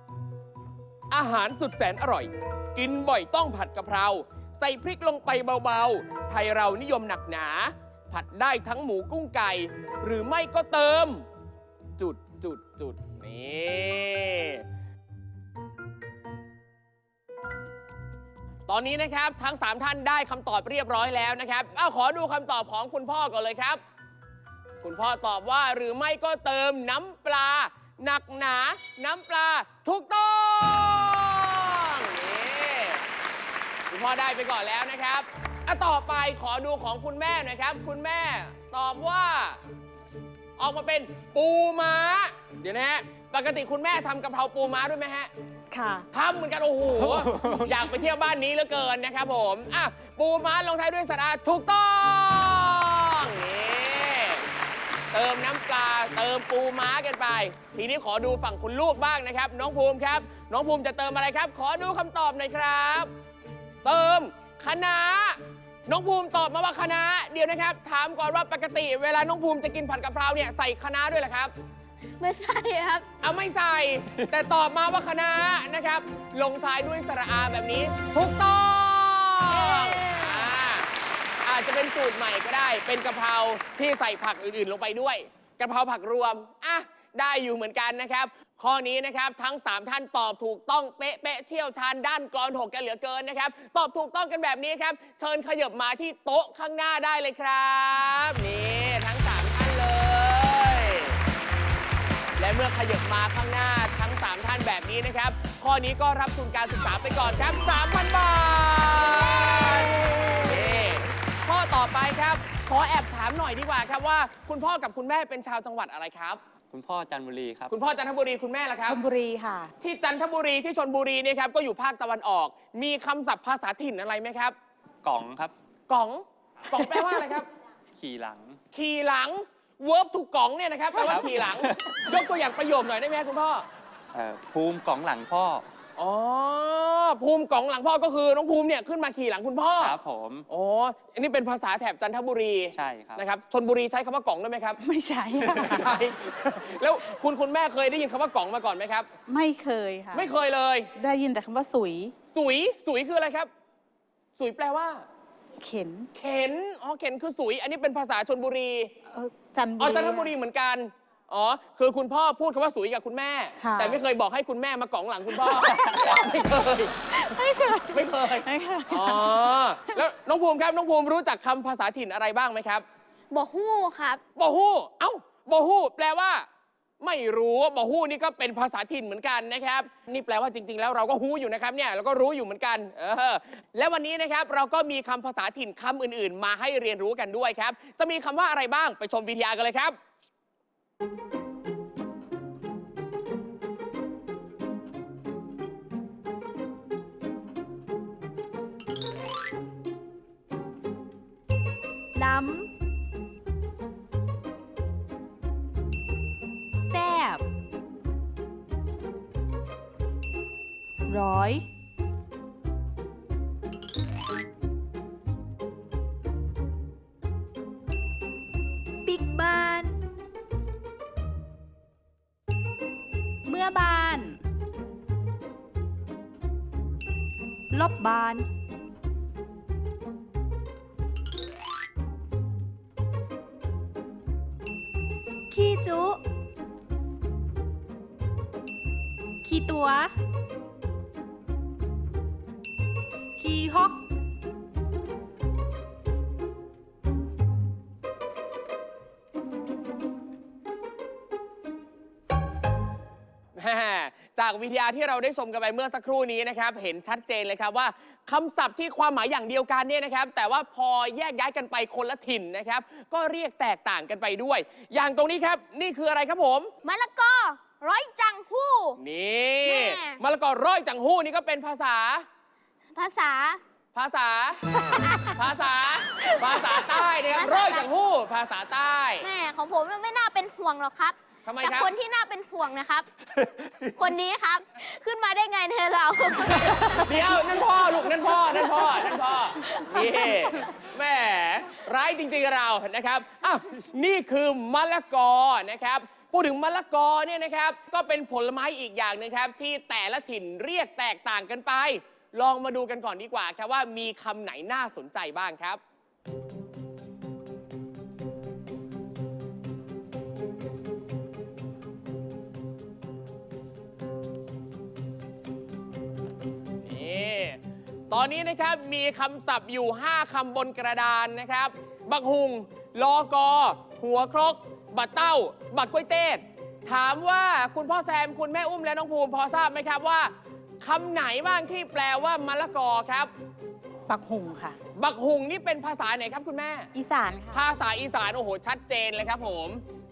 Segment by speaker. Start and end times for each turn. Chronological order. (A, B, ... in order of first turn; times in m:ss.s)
0:01.1-0:11.2 A
0:12.0-0:14.6 A
0:18.7-0:23.8 A
0:24.8-0:33.0 A
0:33.9-0:39.6 A
0:40.6-0:45.3 A
0:45.7-0:46.0 B
0:46.1-0:54.4 A
0:47.0-0:47.6 C
0:55.1-1:03.1 A
1:03.8-1:11.5 A
1:12.2-1:13.1 D
1:13.2-1:20.9 A
1:19.5-1:20.5 D
1:21.4-1:41.2 A
1:42.4-1:56.4 A
1:56.7-1:57.7 C
1:57.7-1:59.0 A
1:58.8-1:59.7 B
1:59.8-2:04.5 A
2:05.0-2:05.5 C
2:05.9-2:07.5 A
2:06.8-2:07.1 B
2:08.0-2:08.6 C
2:08.7-2:13.6 A
2:11.0-2:11.8 C
2:14.1-2:15.6 C
2:16.0-2:20.0 A
2:19.8-2:20.4 C
2:20.5-2:24.8 A
2:22.7-2:23.2 C
2:24.8-2:25.9 B
2:25.4-2:29.1 A
2:29.3-2:30.3 B
2:30.1-2:30.9 A
2:31.0-2:32.1 B
2:32.3-2:33.5 A
2:34.4-2:35.0 A
2:35.6-2:36.1 B
2:36.1-2:38.9 A
2:39.1-2:40.3 B
2:39.8-2:47.1 A
2:43.6-2:44.0 B
2:45.4-2:46.1 B
2:47.1-2:49.4 B
2:47.8-2:52.8 A
2:53.3-2:54.2 D
2:54.4-2:56.4 A
2:57.0-3:10.0 A
3:22.1-3:22.7 E
3:26.9-3:27.4 E
3:31.0-3:31.6 E
3:39.0-3:40.0 E
3:43.4-3:44.4 E
3:47.7-3:48.5 E
3:55.5-3:56.2 E
3:59.4-4:00.1 E
4:03.4-4:04.0 E
4:13.6-4:26.7 A
4:26.8-4:29.0 D
4:29.0-4:32.2 A
4:29.6-4:30.2 D
4:32.9-4:33.6 D
4:33.9-4:34.7 A
4:34.9-4:35.5 D
4:35.3-4:39.2 A
4:36.4-4:37.9 D
4:39.2-4:43.1 D
4:41.4-4:41.9 A
4:43.8-4:47.2 D
4:47.0-5:05.8 A
4:49.6-4:50.5 D
5:16.8-5:17.6 A
5:18.1-5:33.3 A
5:34.1-5:34.8 B
5:34.9-5:36.9 A
5:36.9-5:37.6 B
5:37.5-5:39.8 A